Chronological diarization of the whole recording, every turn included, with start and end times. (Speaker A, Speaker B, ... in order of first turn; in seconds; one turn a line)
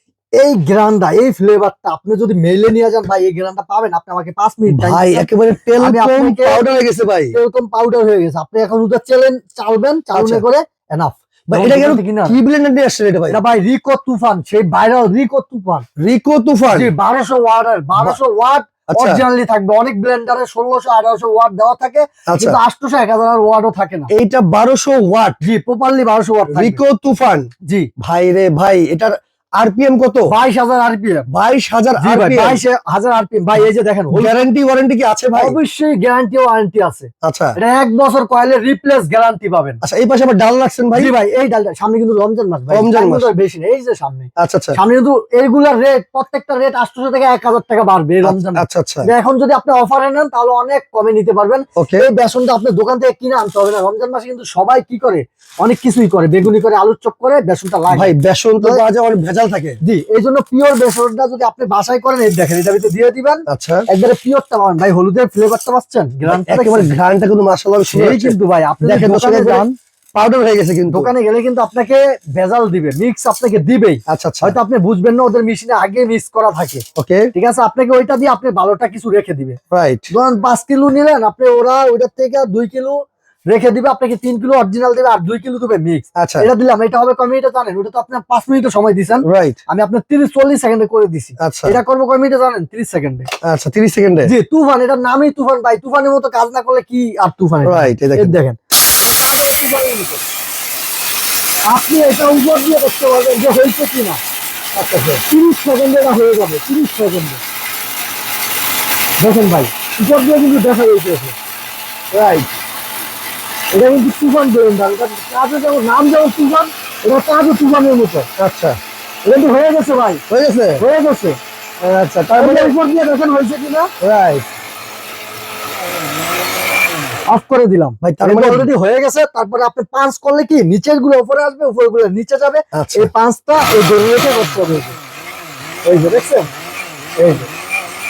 Speaker A: 0.4-5.2
Speaker B: 4.7-7.3
Speaker A: 5.8-6.6
Speaker A: 7.3-12.4
Speaker B: 10.1-10.4
Speaker B: 11.5-13.4
Speaker A: 13.3-15.8
Speaker B: 16.0-16.9
Speaker A: 16.7-24.1
Speaker B: 18.9-19.2
Speaker B: 22.3-22.6
Speaker B: 24.1-25.4
Speaker A: 25.4-26.8
Speaker B: 26.5-27.5
Speaker B: 28.0-30.3
Speaker A: 30.3-31.3
Speaker B: 31.3-32.6
Speaker A: 32.0-34.3
Speaker B: 34.1-35.6
Speaker A: 35.3-39.8
Speaker B: 37.2-37.6
Speaker B: 39.8-41.1
Speaker A: 40.9-58.8
Speaker B: 42.7-43.3
Speaker B: 44.4-44.8
Speaker B: 48.2-49.1
Speaker B: 51.8-52.0
Speaker B: 57.9-59.8
Speaker A: 59.8-66.9
Speaker B: 63.5-63.8
Speaker B: 66.2-71.1
Speaker A: 67.9-69.7
Speaker A: 70.9-76.8
Speaker B: 74.1-74.6
Speaker B: 77.0-77.3
Speaker A: 77.3-79.6
Speaker B: 79.7-80.1
Speaker A: 80.1-93.3
Speaker B: 86.2-86.5
Speaker B: 89.2-89.6
Speaker B: 91.4-91.8
Speaker B: 93.4-94.3
Speaker A: 94.2-100.2
Speaker B: 97.6-98.4
Speaker A: 101.7-104.2
Speaker B: 104.7-105.2
Speaker A: 105.2-107.4
Speaker A: 109.2-111.3
Speaker B: 112.1-112.5
Speaker A: 113.7-118.3
Speaker B: 118.4-118.8
Speaker A: 119.2-120.2
Speaker B: 120.3-120.8
Speaker A: 120.8-121.4
Speaker B: 121.8-122.7
Speaker A: 122.4-123.9
Speaker B: 124.0-124.5
Speaker A: 127.3-134.9
Speaker B: 128.0-128.7
Speaker B: 132.7-133.1
Speaker A: 135.8-136.5
Speaker A: 137.2-137.5